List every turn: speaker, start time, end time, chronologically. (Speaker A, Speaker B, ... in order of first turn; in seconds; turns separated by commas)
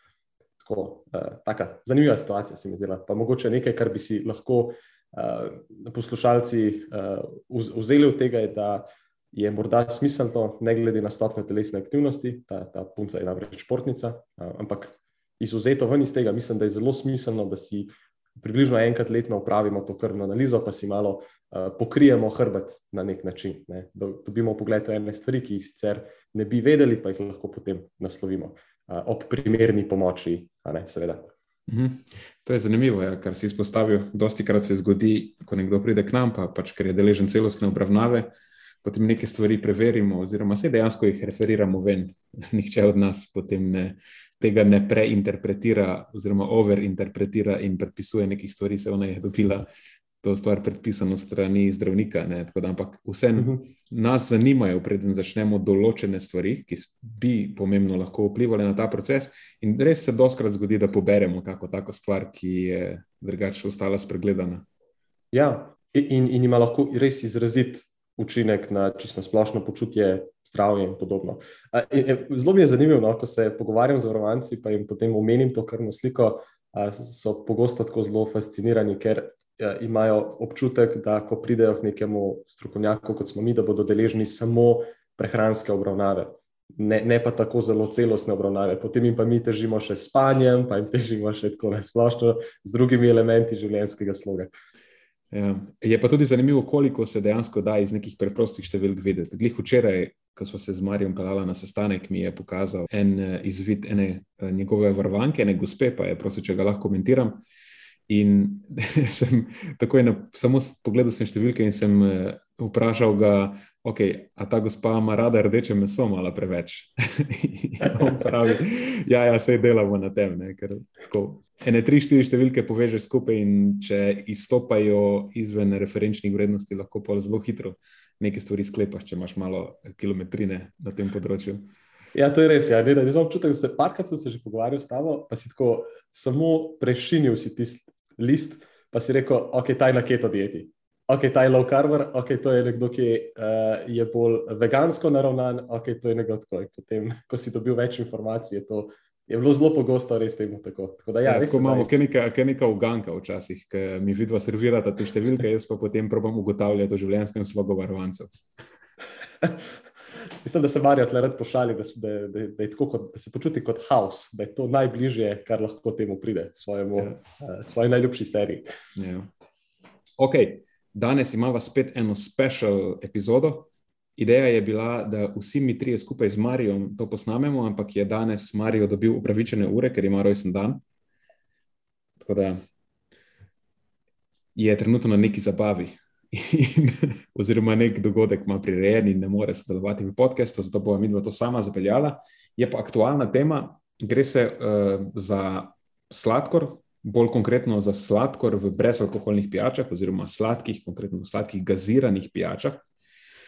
Speaker A: 0.6-31.3, Speaker B: 31.7-38.3, Speaker B: 38.8-49.7, Speaker B: 50.2-64.7, Speaker A: 65.3-94.5, Speaker B: 95.3-107.4, Speaker B: 108.1-131.7, Speaker A: 132.1-152.0, Speaker B: 151.2-158.3, Speaker A: 160.4-168.7, Speaker B: 169.0-169.3, Speaker B: 170.2-180.8, Speaker B: 182.2-182.6, Speaker B: 184.6-202.8